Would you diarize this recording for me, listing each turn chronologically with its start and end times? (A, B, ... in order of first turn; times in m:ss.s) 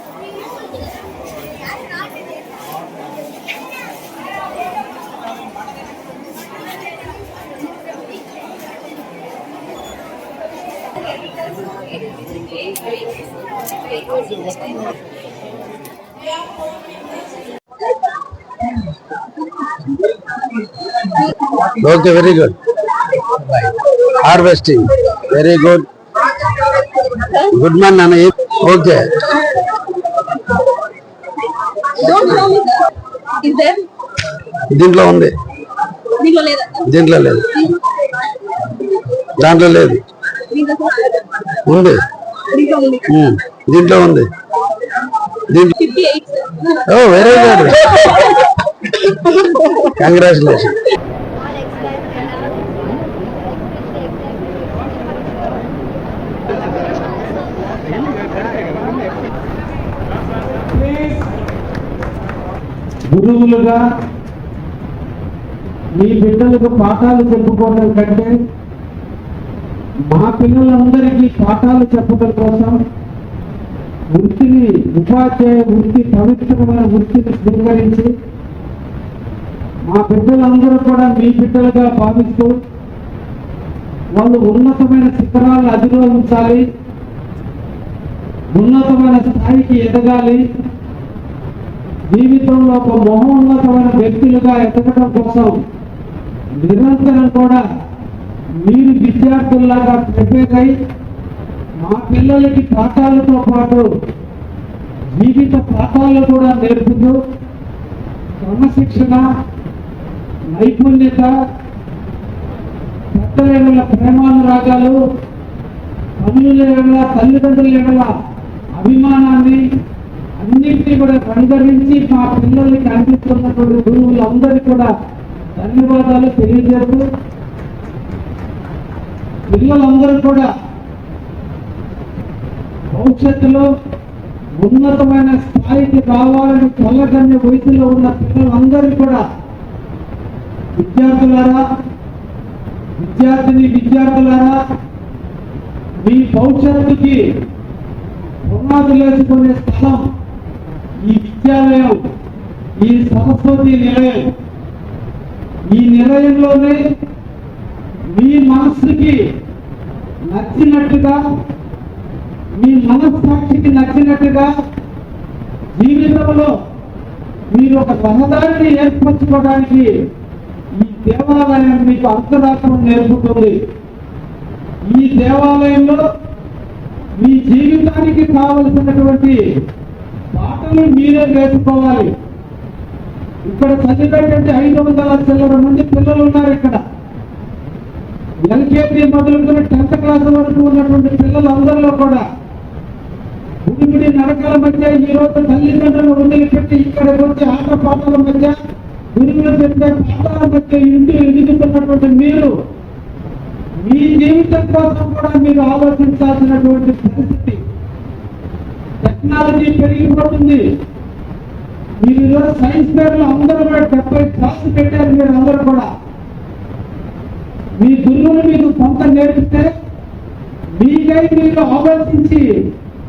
0:21.5-0:22.6 A
0:23.1-0:25.9 A
0:27.0-0:29.4 A
0:32.1-0:32.9 B
0:32.1-0:32.4 A
0:33.4-0:33.8 B
0:34.7-0:35.4 A
0:36.2-0:36.8 B
0:36.7-0:37.7 A
0:39.4-0:40.0 A
0:40.6-0:41.2 B
0:41.5-0:42.0 A
0:42.6-0:43.1 B
0:43.0-0:44.3 A
0:45.5-0:45.7 A
0:45.8-0:46.8 B
0:46.8-0:48.0 A
0:49.8-0:50.8 A
0:52.2-0:52.4 B
1:00.7-1:01.3 C
1:03.1-1:03.8 C
1:06.0-1:08.4 C
1:10.1-1:12.8 C
1:14.1-1:18.1 C
1:19.9-1:22.6 C
1:24.2-1:26.6 C
1:28.6-1:30.4 C
1:32.1-1:35.6 C
1:36.6-1:37.6 C
1:38.6-1:40.8 C
1:41.8-1:43.9 C
1:45.2-1:47.2 C
1:48.4-1:49.3 C
1:50.5-1:51.3 C
1:53.1-1:55.0 C
1:56.2-1:58.1 C
1:58.8-1:59.6 C
2:00.4-2:04.9 C
2:05.6-2:07.0 C
2:09.5-2:10.5 C
2:12.9-2:13.7 C
2:14.6-2:19.2 C
2:20.8-2:21.6 C
2:23.0-2:24.6 C
2:26.0-2:27.2 C
2:28.4-2:30.1 C
2:31.0-2:32.0 C
2:32.8-2:34.3 C
2:35.7-2:36.8 C
2:38.1-2:39.2 C
2:40.3-2:41.2 C
2:42.6-2:44.5 C
2:45.8-2:46.5 C
2:47.5-2:49.9 C
2:50.7-2:53.6 C
2:54.9-2:56.0 C
2:57.2-2:59.4 C
3:00.3-3:02.1 C
3:03.5-3:06.8 C
3:08.4-3:12.2 C
3:13.6-3:18.6 C
3:19.2-3:22.5 C
3:23.8-3:27.6 C
3:29.0-3:30.6 C
3:32.0-3:35.9 C
3:37.8-3:39.7 C
3:40.8-3:42.5 C